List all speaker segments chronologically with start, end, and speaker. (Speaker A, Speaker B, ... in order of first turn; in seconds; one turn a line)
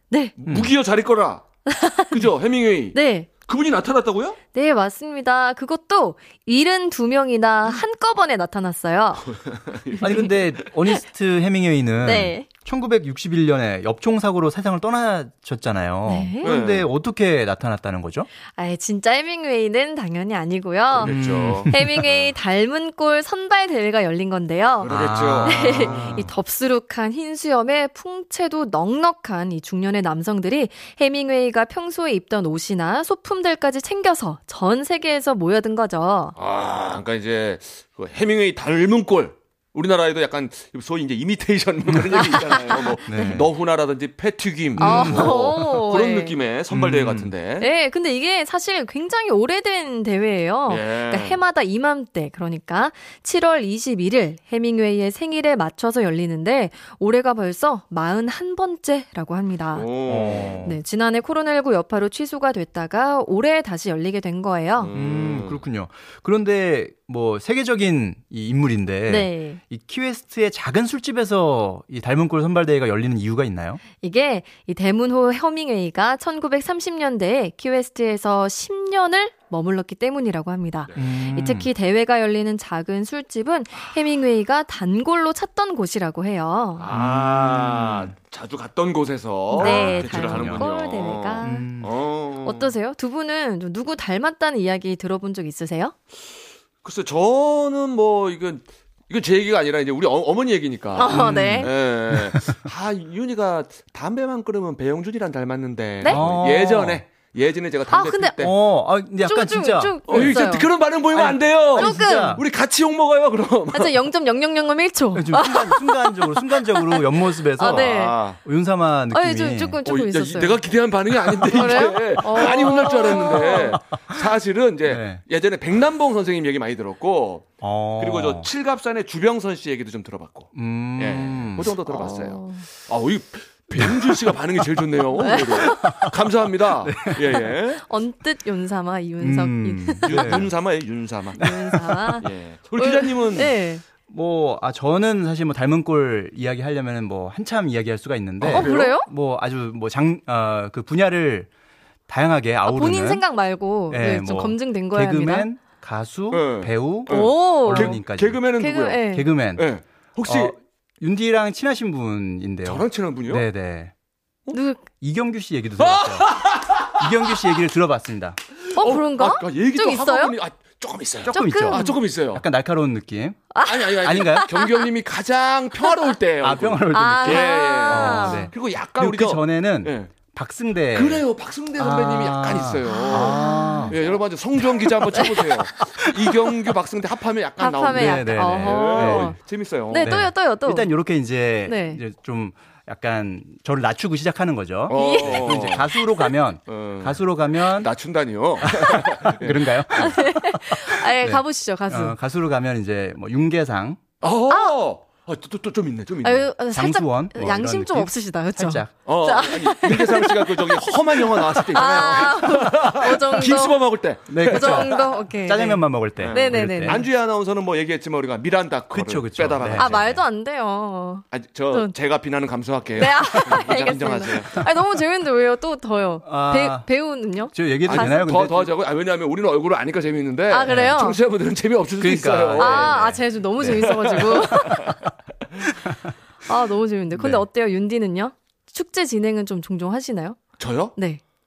Speaker A: 0.4-1.4
Speaker B: 1.7-2.3
Speaker A: 2.1-4.4
Speaker B: 2.9-3.3
Speaker B: 4.5-9.3
Speaker A: 9.2-10.5
Speaker C: 10.0-18.3
Speaker B: 12.0-12.5
Speaker B: 16.1-16.5
Speaker A: 16.4-16.9
Speaker B: 18.5-36.4
Speaker A: 20.9-22.3
Speaker C: 21.0-22.0
Speaker A: 24.8-26.2
Speaker C: 24.9-26.3
Speaker A: 36.4-47.7
Speaker B: 42.6-43.4
Speaker C: 43.1-43.5
Speaker C: 44.8-45.4
Speaker B: 44.8-46.4
Speaker C: 46.7-47.3
Speaker B: 47.6-59.9
Speaker A: 50.7-51.4
Speaker A: 59.8-60.7
Speaker C: 60.1-60.8
Speaker B: 60.6-64.9
Speaker A: 64.8-65.6
Speaker C: 64.9-73.8
Speaker B: 69.1-69.6
Speaker B: 74.0-86.9
Speaker A: 80.9-81.2
Speaker C: 81.0-81.7
Speaker A: 86.8-92.8
Speaker C: 86.9-88.1
Speaker B: 89.5-91.7
Speaker C: 89.6-90.7
Speaker C: 91.4-91.9
Speaker B: 92.4-96.0
Speaker A: 96.8-108.5
Speaker B: 101.0-101.7
Speaker C: 101.0-102.6
Speaker B: 106.0-106.3
Speaker C: 106.1-107.0
Speaker B: 107.9-108.3
Speaker C: 108.4-110.4
Speaker B: 109.2-110.7
Speaker A: 110.1-114.0
Speaker C: 111.1-112.4
Speaker B: 111.8-112.4
Speaker B: 113.7-117.0
Speaker C: 115.1-119.8
Speaker B: 117.6-118.2
Speaker A: 117.6-118.4
Speaker B: 119.1-120.6
Speaker A: 119.8-137.8
Speaker B: 121.5-123.8
Speaker C: 121.8-124.2
Speaker C: 124.9-125.2
Speaker C: 127.6-128.5
Speaker C: 130.5-131.7
Speaker B: 131.9-132.7
Speaker C: 133.7-134.2
Speaker B: 135.2-136.0
Speaker C: 135.3-136.1
Speaker C: 136.8-137.5
Speaker B: 137.3-140.5
Speaker C: 139.2-140.5
Speaker A: 140.0-141.5
Speaker B: 141.4-143.8
Speaker C: 141.4-142.2
Speaker A: 142.2-143.6
Speaker C: 144.1-151.5
Speaker A: 148.4-149.0
Speaker B: 148.5-149.1
Speaker C: 152.1-153.2
Speaker B: 152.7-155.5
Speaker C: 153.9-158.4
Speaker A: 156.3-159.0
Speaker B: 157.1-158.0
Speaker B: 158.6-159.3
Speaker C: 159.1-159.7
Speaker A: 159.6-160.5
Speaker C: 160.2-163.9
Speaker A: 162.7-163.5
Speaker B: 164.5-164.9
Speaker C: 165.0-166.3
Speaker A: 165.8-167.6
Speaker C: 166.9-168.4
Speaker A: 168.6-172.4
Speaker B: 168.8-170.3
Speaker C: 171.3-174.5
Speaker B: 171.3-172.0
Speaker B: 173.5-174.7
Speaker A: 173.6-180.1
Speaker C: 176.4-181.2
Speaker B: 176.9-178.5
Speaker A: 180.9-190.2
Speaker C: 181.8-184.0
Speaker B: 182.8-184.0
Speaker C: 184.6-186.8
Speaker B: 187.6-189.4
Speaker C: 187.9-189.4
Speaker B: 189.9-190.9
Speaker C: 190.0-197.9
Speaker B: 191.7-192.0
Speaker A: 194.9-195.9
Speaker B: 194.9-196.3
Speaker A: 196.7-200.2
Speaker C: 198.6-204.0
Speaker B: 199.9-202.2
Speaker A: 204.2-206.5
Speaker B: 204.5-204.8
Speaker B: 206.2-213.8
Speaker C: 206.7-208.9
Speaker A: 209.1-215.2
Speaker C: 214.3-217.0
Speaker B: 214.4-217.0
Speaker A: 216.2-220.2
Speaker C: 218.9-220.0
Speaker B: 219.8-221.9
Speaker A: 221.3-224.7
Speaker B: 223.0-228.2
Speaker C: 226.2-226.9
Speaker C: 227.5-228.7
Speaker A: 227.8-233.0
Speaker B: 230.5-231.2
Speaker C: 230.7-231.0
Speaker C: 232.0-234.4
Speaker B: 232.6-235.1
Speaker A: 233.7-235.0
Speaker C: 235.6-236.1
Speaker B: 236.4-240.4
Speaker C: 237.2-237.4
Speaker A: 240.6-240.9
Speaker B: 241.0-241.2